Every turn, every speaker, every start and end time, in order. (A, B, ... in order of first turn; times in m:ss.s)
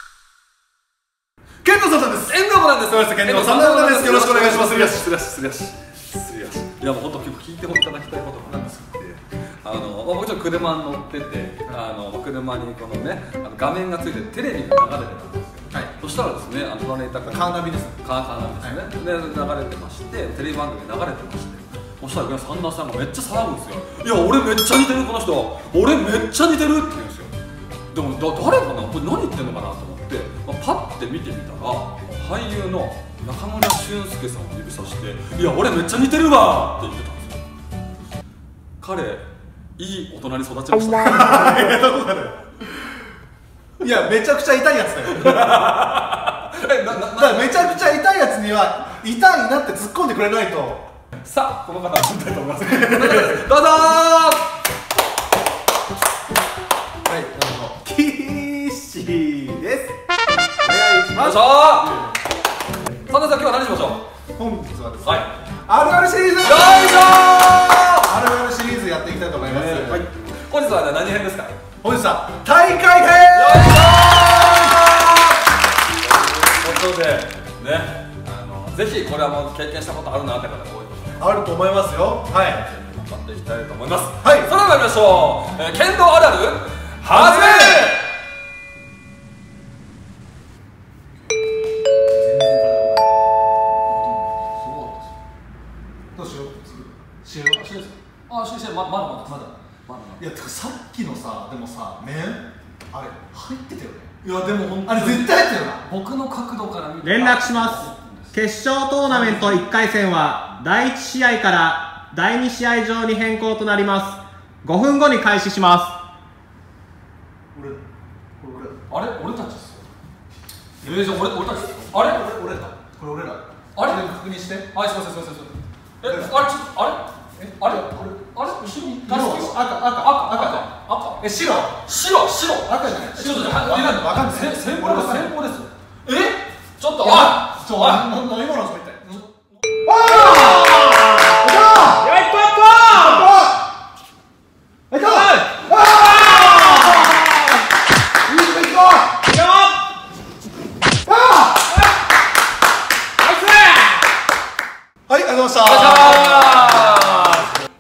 0:01.6-0:05.1 A
0:02.2-0:27.3 B
0:17.2-0:18.0 A
0:27.9-0:37.4 B
0:38.8-0:39.2 B
0:39.8-0:41.7 B
0:41.0-0:43.0 A
0:43.8-0:45.7 A
0:45.1-0:48.0 B
0:47.1-0:50.8 A
0:51.1-0:54.6 B
0:52.6-0:53.5 A
0:57.0-1:00.0 A
1:00.6-1:02.1 A
1:01.1-1:02.0 B
1:03.0-1:04.0 B
1:04.4-1:07.2 A
1:05.0-1:05.3 B
1:06.4-1:08.1 B
1:08.0-1:10.0 A
1:09.4-1:11.6 B
1:11.8-1:14.8 A
1:13.3-1:15.4 B
1:16.0-1:21.2 B
1:21.2-1:22.7 A
1:22.5-1:28.1 B
1:24.2-1:24.5 A
1:27.1-1:27.9 A
1:32.1-1:33.1 A
1:33.9-1:35.1 B
1:36.1-1:37.6 A
1:37.5-1:40.2 B
1:39.2-1:39.5 A
1:40.2-1:45.8 A
1:44.2-1:48.3 B
1:47.0-1:56.0 C
1:49.1-1:49.6 B
1:49.2-1:49.5 A
1:57.5-1:57.8 A
1:58.4-1:58.8 A
1:58.9-1:59.8 B
2:00.8-2:02.2 B
2:00.8-2:04.7 A
2:03.7-2:04.0 B
2:04.7-2:11.2 B
2:06.0-2:06.4 A
2:07.4-2:11.8 A
2:11.8-2:18.1 B
2:12.6-2:15.4 A
2:17.0-2:19.3 A
2:19.8-2:22.2 A
2:20.0-2:23.3 B
2:22.9-2:23.7 A
2:24.9-2:27.2 A
2:25.0-2:27.1 B
2:28.2-2:29.2 A
2:29.2-2:29.8 B
2:31.0-2:31.7 A
2:33.2-2:34.0 B
2:35.1-2:37.3 A
2:35.6-2:37.5 B